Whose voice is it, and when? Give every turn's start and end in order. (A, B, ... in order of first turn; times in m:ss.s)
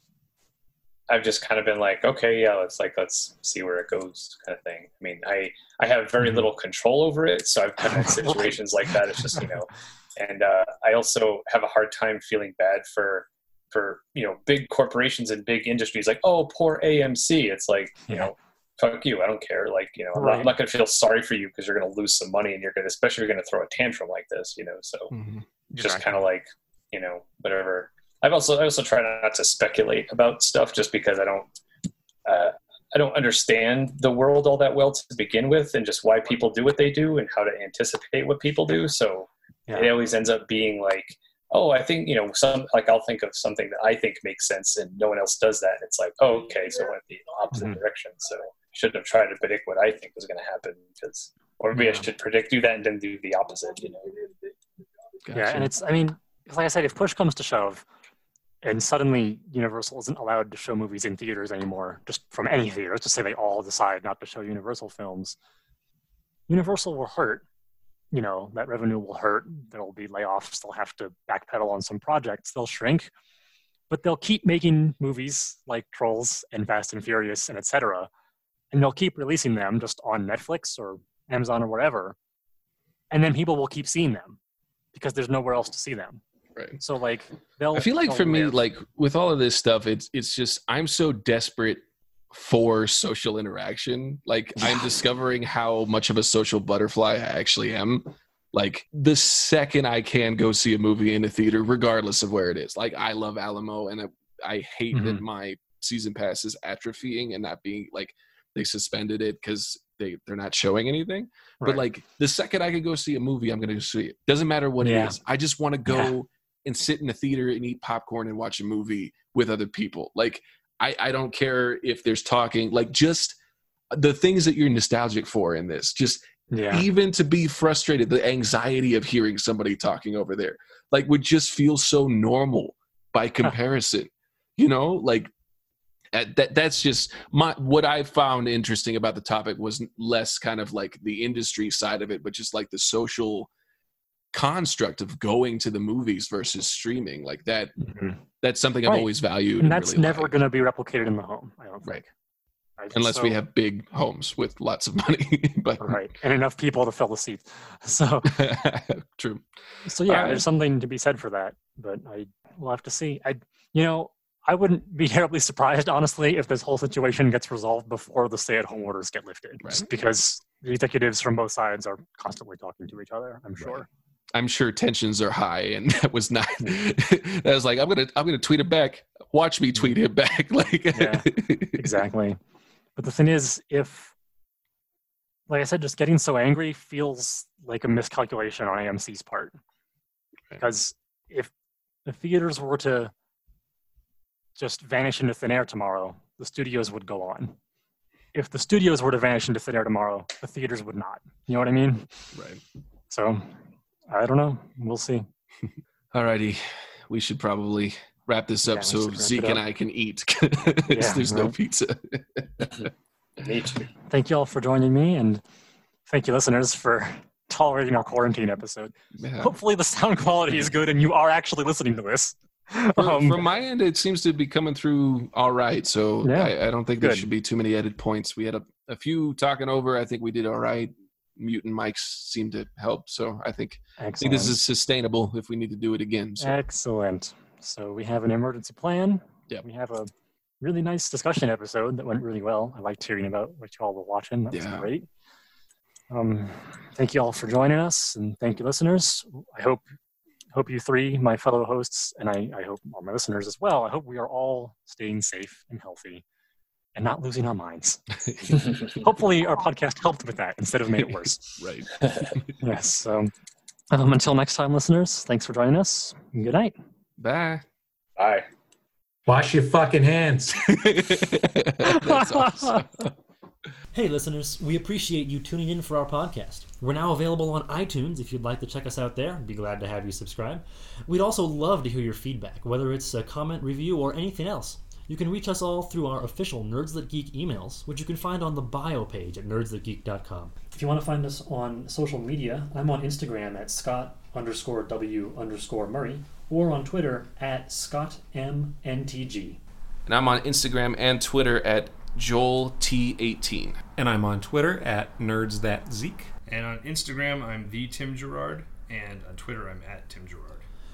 0:01.1-0:25.1 A
0:07.8-0:08.6 B
0:20.2-0:20.5 B
0:25.1-0:25.4 C
0:25.7-0:31.5 A
0:25.8-0:26.0 B
0:32.2-0:54.2 A
0:47.5-0:47.8 B
0:51.8-0:52.0 B
0:55.2-0:55.7 C
0:55.3-0:57.8 B
0:58.6-1:05.4 B
1:06.5-1:07.4 B
1:08.1-1:13.1 B
1:13.9-1:18.1 B
1:18.7-1:22.2 B
1:23.1-1:24.4 B
1:24.9-1:26.2 B
1:26.8-1:28.6 B
1:27.7-2:03.4 C
1:44.9-1:45.2 B
1:54.8-1:55.2 B
1:55.9-1:56.1 B
2:03.9-2:15.3 C
2:06.5-2:06.8 B
2:16.1-2:23.5 C
2:24.3-2:27.9 C
2:27.8-2:28.2 B
2:28.4-2:30.3 C
2:28.8-2:32.1 B
2:32.8-2:33.4 B
2:32.9-2:36.0 C
2:35.8-2:38.3 B
2:38.3-2:39.5 C
2:39.8-2:53.9 B
2:40.0-2:40.4 C
2:54.3-3:01.8 C
3:00.9-3:02.4 B
3:03.0-3:04.1 B
3:05.5-3:09.5 B
3:10.6-3:11.5 B
3:12.0-3:13.1 B
3:14.6-3:17.5 B
3:18.3-3:22.1 B
3:22.3-3:22.6 C
3:23.1-3:23.5 B
3:24.1-3:25.2 B
3:26.1-3:32.9 C
3:28.7-3:29.6 B
3:30.9-3:31.5 B
3:33.4-3:33.9 A
3:34.1-3:35.4 B
3:36.1-3:43.4 B
3:39.2-3:39.5 C
3:43.0-3:56.5 C
3:46.2-3:47.3 B
3:54.0-3:54.5 B
3:56.4-4:05.1 B
4:04.5-4:04.9 C
4:06.1-4:09.8 B
4:10.5-4:16.2 B
4:16.9-4:21.6 B
4:21.6-4:22.5 C
4:22.6-4:23.3 B
4:23.9-4:26.7 B
4:27.2-4:27.6 C
4:28.2-4:28.4 A
4:29.3-4:30.6 D
4:30.7-4:33.1 C
4:31.8-4:32.8 B
4:33.9-4:50.6 E
4:50.7-4:59.6 B
5:00.0-5:03.8 C
5:04.0-5:06.3 D
5:06.4-5:10.7 F